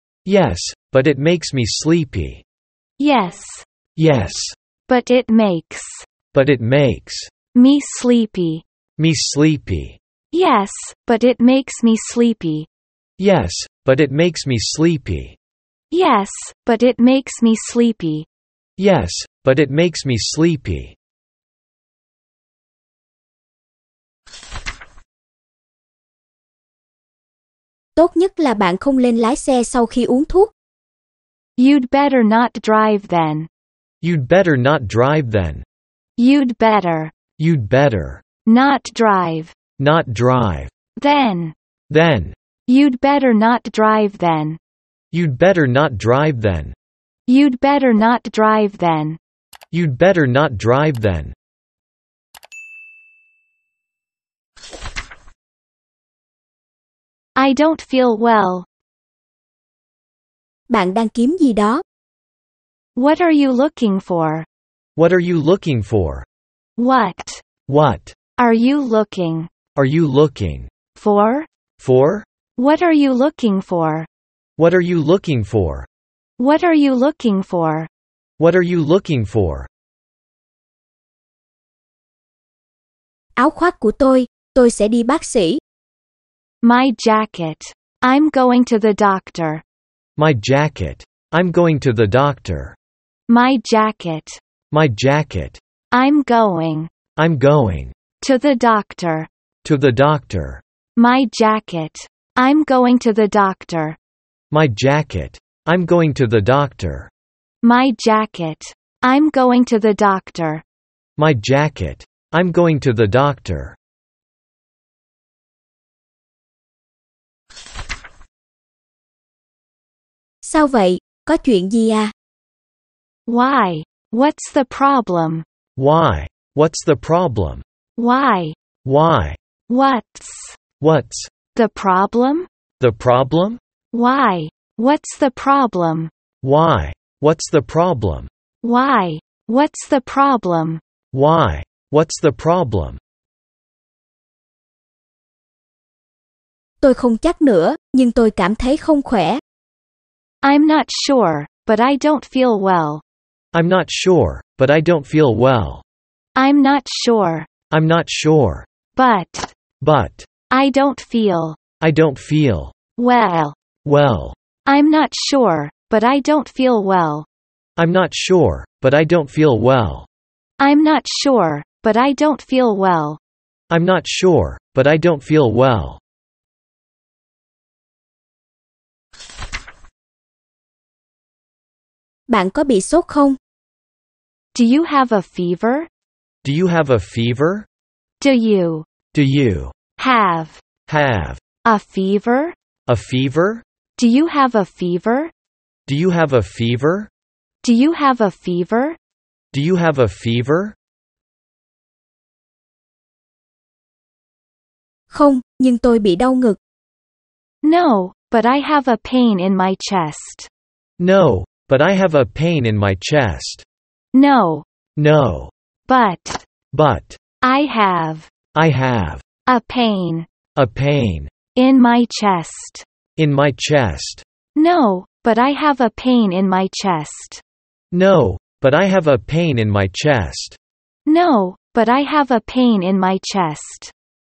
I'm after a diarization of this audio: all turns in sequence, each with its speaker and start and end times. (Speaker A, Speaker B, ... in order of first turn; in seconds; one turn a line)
Speaker A: 0.3-2.4
Speaker B: 3.0-3.6
Speaker A: 4.0-4.6
Speaker B: 4.9-6.1
Speaker A: 6.3-7.3
Speaker B: 7.5-8.6
Speaker A: 9.0-10.0
Speaker B: 10.3-12.7
Speaker A: 13.2-15.4
Speaker B: 15.9-18.3
Speaker A: 18.8-21.0
Speaker C: 28.0-30.5
Speaker B: 31.6-33.5
Speaker A: 34.0-35.6
Speaker B: 36.2-37.1
Speaker A: 37.4-38.2
Speaker B: 38.5-39.5
Speaker A: 39.8-40.7
Speaker B: 41.0-41.5
Speaker A: 41.9-42.4
Speaker B: 42.7-44.6
Speaker A: 45.1-46.8
Speaker B: 47.3-49.2
Speaker A: 49.7-51.4
Speaker B: 57.4-58.7
Speaker C: 60.7-61.8
Speaker B: 63.0-64.5
Speaker A: 65.0-66.3
Speaker B: 66.8-67.4
Speaker A: 67.7-68.2
Speaker B: 68.4-69.5
Speaker A: 69.8-70.7
Speaker B: 71.0-71.5
Speaker A: 71.8-72.3
Speaker B: 72.6-74.1
Speaker A: 74.6-75.9
Speaker B: 76.4-77.9
Speaker A: 78.4-79.7
Speaker C: 83.4-85.6
Speaker B: 86.6-89.6
Speaker A: 90.2-92.8
Speaker B: 93.3-94.4
Speaker A: 94.7-95.6
Speaker B: 95.9-96.9
Speaker A: 97.2-98.0
Speaker B: 98.2-99.3
Speaker A: 99.6-100.6
Speaker B: 101.0-104.0
Speaker A: 104.5-107.1
Speaker B: 107.6-110.6
Speaker A: 111.2-113.8
Speaker C: 120.4-122.1
Speaker B: 123.3-125.5
Speaker A: 125.8-127.6
Speaker B: 128.0-128.6
Speaker A: 128.8-129.4
Speaker B: 129.7-130.6
Speaker A: 130.8-131.3
Speaker B: 131.5-132.5
Speaker A: 132.8-133.6
Speaker B: 133.9-136.1
Speaker A: 136.4-138.3
Speaker B: 138.6-140.8
Speaker A: 141.1-143.0
Speaker C: 146.8-149.4
Speaker B: 150.4-153.0
Speaker A: 153.5-155.8
Speaker B: 156.4-157.5
Speaker A: 157.7-158.7
Speaker B: 159.0-159.5
Speaker A: 159.8-160.3
Speaker B: 160.5-161.6
Speaker A: 161.8-162.7
Speaker B: 163.0-163.6
Speaker A: 163.8-164.4
Speaker B: 164.7-167.3
Speaker A: 167.8-170.1
Speaker B: 170.6-173.2
Speaker A: 173.7-176.0
Speaker C: 182.3-183.4
Speaker B: 184.5-185.9
Speaker A: 186.4-187.7
Speaker B: 188.2-188.9
Speaker A: 189.1-189.8
Speaker B: 190.0-190.6
Speaker A: 190.9-191.4
Speaker B: 191.6-192.6
Speaker A: 192.9-193.6
Speaker B: 194.0-195.3
Speaker A: 195.9-197.1
Speaker B: 197.6-199.0
Speaker A: 199.5-200.8
Speaker C: 205.1-206.6
Speaker B: 207.6-210.5
Speaker A: 211.0-213.7
Speaker B: 214.1-214.7
Speaker A: 215.0-215.5
Speaker B: 215.9-216.4
Speaker A: 216.7-217.2
Speaker B: 217.4-218.3
Speaker A: 218.5-219.2
Speaker B: 219.5-220.3
Speaker A: 220.6-221.3
Speaker B: 221.6-222.8
Speaker A: 223.2-224.2
Speaker B: 224.6-227.4
Speaker A: 227.9-230.6
Speaker B: 231.1-233.9